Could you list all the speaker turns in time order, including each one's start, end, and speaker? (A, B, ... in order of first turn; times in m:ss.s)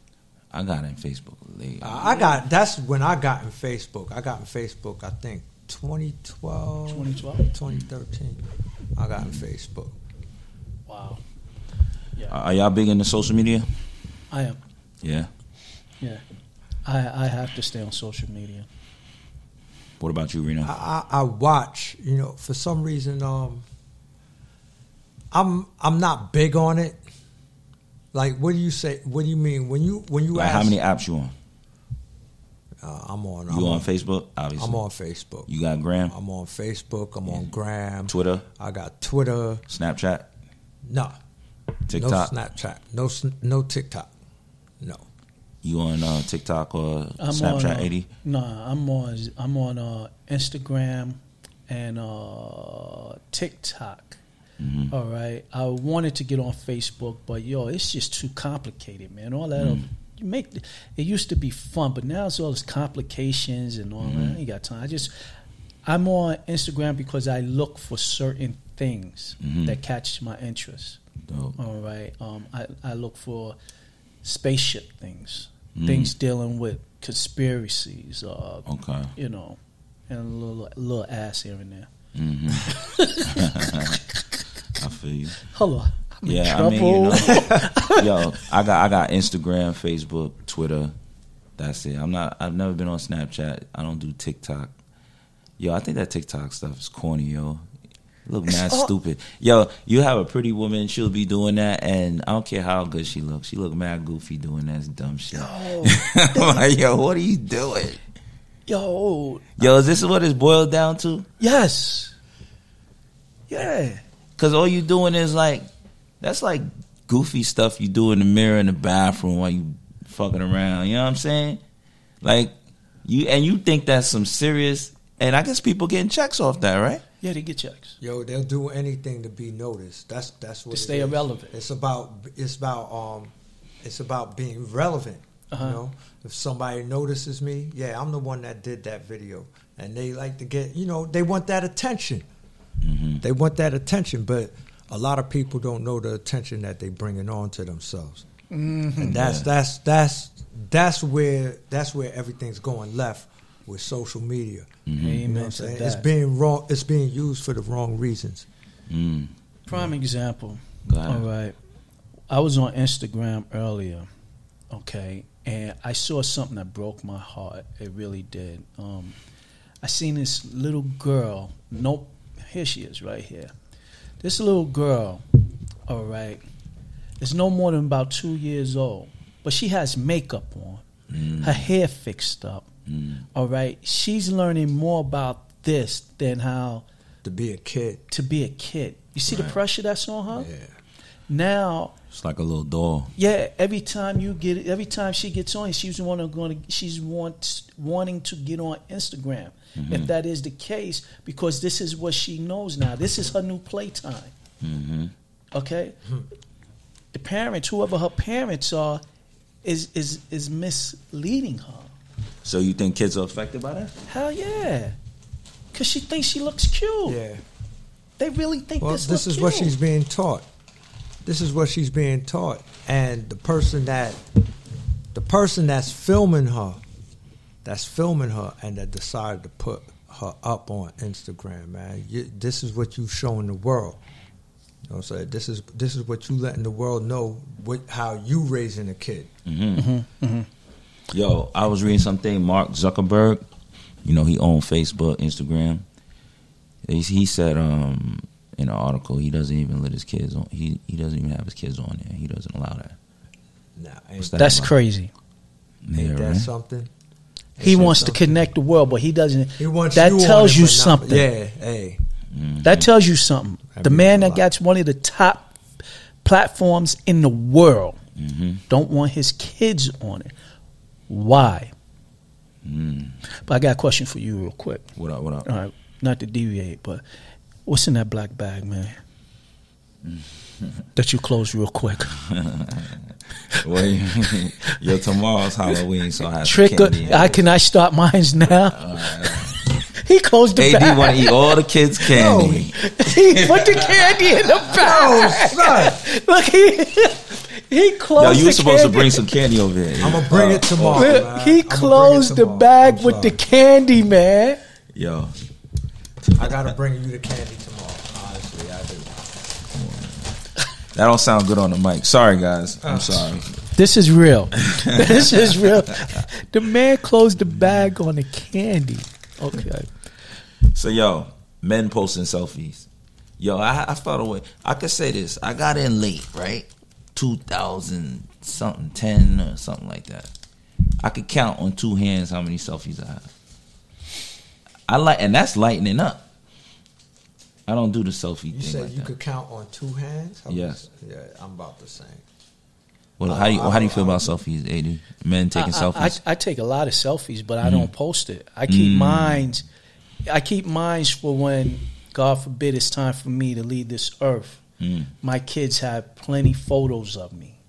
0:00.5-0:02.3 A
0:01.8-0:08.4 B
0:06.9-0:07.5 C
0:08.9-0:09.9 B
0:10.9-0:11.2 C
0:12.3-0:13.7 A
0:14.3-0:14.6 C
0:15.0-0:15.3 A
0:16.8-0:18.7 C
0:20.0-0:20.7 A
0:20.6-0:23.6 B
0:25.3-0:27.0 B
0:28.1-0:30.8 B
0:30.3-0:31.3 A
0:32.8-0:33.9 B
0:33.5-0:34.8 A
0:34.6-0:35.5 B
0:35.5-0:36.1 A
0:36.1-0:39.6 B
0:38.1-0:38.4 A
0:39.7-0:40.2 A
0:40.9-0:41.1 B
0:41.9-0:42.3 A
0:41.9-0:44.1 B
0:44.8-0:45.0 B
0:45.6-0:48.1 A
0:47.2-0:54.2 C
0:54.6-0:54.9 A
0:54.9-1:05.1 C
0:59.6-0:59.9 A
1:04.0-1:04.4 A
1:05.8-1:11.0 C
1:09.4-1:09.8 A
1:11.3-1:11.6 A
1:11.6-1:13.6 C
1:14.2-1:19.6 C
1:15.7-1:16.1 A
1:18.7-1:19.1 A
1:20.1-1:21.9 C
1:22.1-1:24.0 A
1:22.6-1:24.2 C
1:24.7-1:25.5 A
1:25.4-1:28.3 C
1:26.2-1:30.9 A
1:27.3-1:27.6 B
1:31.6-1:34.7 A
1:35.6-1:37.6 A
1:38.2-1:48.0 A
1:38.5-1:38.9 C
1:45.3-1:46.6 C
1:48.7-1:49.7 C
1:49.6-1:51.3 A
1:51.4-1:52.1 C
1:53.5-1:54.0 C
1:54.4-1:55.7 A
1:56.2-2:01.6 A
2:02.2-2:02.5 A
2:03.0-2:07.0 A
2:07.2-2:08.0 C
2:08.0-2:13.3 B
2:10.7-2:11.5 C
2:13.8-2:22.2 B
2:15.5-2:15.8 C
2:22.8-2:23.2 A
2:23.2-2:28.2 B
2:28.5-2:29.3 C
2:29.0-2:34.7 B
2:29.1-2:29.5 A
2:34.9-2:35.2 A
2:35.0-2:36.0 C
2:35.2-2:38.4 B
2:38.9-2:39.3 A
2:39.7-2:41.5 C
2:40.8-2:41.2 A
2:42.3-2:44.1 C
2:44.7-2:49.2 C
2:49.8-2:53.5 C
2:54.2-2:55.2 C
2:55.9-2:56.4 C
2:57.2-3:00.8 C
3:01.1-3:01.7 A
3:01.4-3:02.6 C
3:02.9-3:03.2 A
3:03.3-3:06.8 C
3:07.2-3:08.0 B
3:08.1-3:10.5 C
3:09.3-3:09.6 A
3:10.3-3:10.7 B
3:11.3-3:11.9 C
3:12.1-3:13.1 A
3:13.2-3:24.3 C
3:19.8-3:20.1 A
3:24.6-3:25.1 A
3:25.5-3:26.0 C
3:27.1-3:29.0 C
3:29.6-3:31.9 C
3:32.4-3:33.9 A
3:34.1-3:34.9 C
3:35.7-3:37.2 C
3:37.0-3:37.4 B
3:38.2-3:39.7 C
3:38.8-3:40.4 B
3:41.2-3:44.2 B
3:45.1-3:46.8 B
3:47.6-3:54.0 B
3:54.9-3:59.3 B
3:59.4-3:59.9 A
3:59.8-4:00.5 C
4:01.1-4:03.4 A
4:04.0-4:05.8 A
4:06.8-4:13.0 A
4:13.8-4:14.5 B
4:14.2-4:14.7 A
4:14.4-4:15.1 C
4:15.8-4:16.5 A
4:15.9-4:16.9 B
4:17.6-4:18.2 B
4:17.6-4:21.3 C
4:19.6-4:22.0 B
4:22.3-4:22.9 A
4:22.6-4:25.5 C
4:23.7-4:24.4 B
4:26.2-4:28.0 C
4:28.2-4:28.6 A
4:28.7-4:30.3 C
4:31.1-4:31.7 C
4:32.6-4:33.2 A
4:33.4-4:34.8 C
4:35.0-4:35.5 A
4:35.4-4:37.0 C
4:37.6-4:39.0 C
4:41.0-4:42.1 C
4:42.1-4:47.4 A
4:46.4-4:49.4 C
4:48.7-4:49.6 A
4:49.9-4:51.6 C
4:50.6-4:52.7 A
4:52.1-4:52.7 B
4:52.7-4:59.2 C
4:53.3-4:54.3 A
4:54.7-4:56.0 B
4:58.2-5:01.2 A
5:00.0-5:03.4 B
5:00.9-5:04.6 C
5:04.9-5:05.3 A
5:06.3-5:09.3 B
5:09.7-5:10.3 A
5:10.9-5:13.5 A
5:12.8-5:13.3 B
5:13.7-5:19.9 C
5:14.6-5:16.1 A
5:20.7-5:22.9 A
5:23.4-5:30.3 A
5:31.0-5:33.3 A
5:34.9-5:36.2 A
5:37.7-5:39.1 A
5:38.5-5:42.2 B
5:40.5-5:40.8 A
5:43.2-5:46.2 A
5:43.2-5:44.3 B
5:45.5-5:49.6 C
5:47.6-5:47.9 A
5:48.7-5:49.4 A
5:50.3-5:54.6 C
5:54.8-5:55.1 A
5:55.2-5:57.6 C